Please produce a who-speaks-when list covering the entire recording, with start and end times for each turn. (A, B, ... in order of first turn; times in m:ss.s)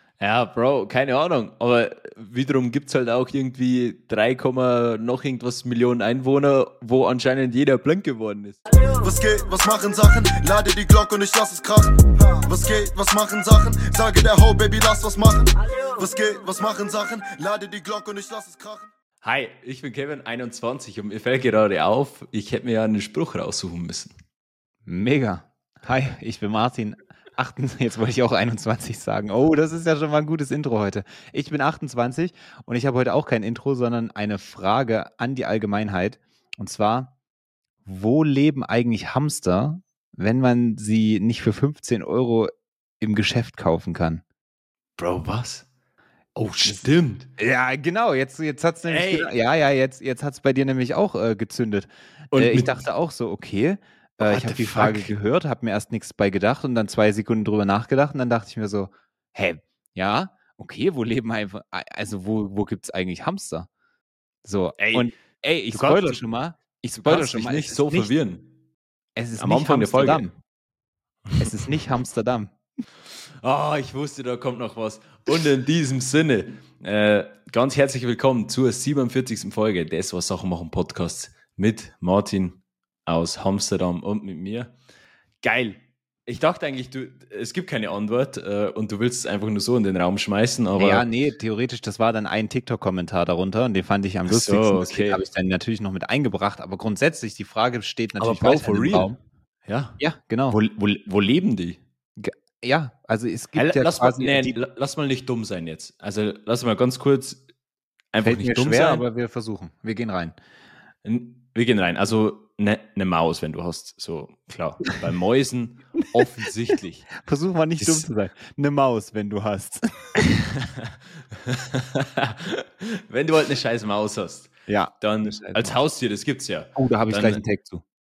0:00.2-0:08.6 A
0:08.7-0:18.9 B
0:19.2-0:24.1 A
0:24.8-0:37.1 C
0:37.8-0:44.2 C
0:45.0-0:45.6 A
0:46.4-0:47.3 A
0:47.4-1:03.7 C
0:48.8-0:49.3 A
0:52.3-0:52.8 A
0:54.2-0:55.1 A
1:04.4-1:08.1 C
1:04.8-1:05.1 A
1:05.7-1:06.2 A
1:07.0-1:08.5 A
1:09.2-1:10.3 C
1:09.4-1:10.3 A
1:11.4-1:12.5 C
1:13.4-1:24.7 A
1:25.4-1:31.0 A
1:30.8-1:39.2 C
1:34.3-1:35.2 A
1:38.2-1:39.1 A
1:39.6-1:40.0 A
1:40.0-1:40.6 C
1:40.5-1:41.8 A
1:42.2-1:44.6 C
1:43.5-1:47.4 A
1:48.1-1:49.0 A
1:48.2-1:50.4 C
1:51.0-1:57.1 A
1:57.2-2:00.2 C
1:57.8-1:58.1 A
2:00.2-2:07.4 A
2:04.7-2:05.8 C
2:06.7-2:07.8 C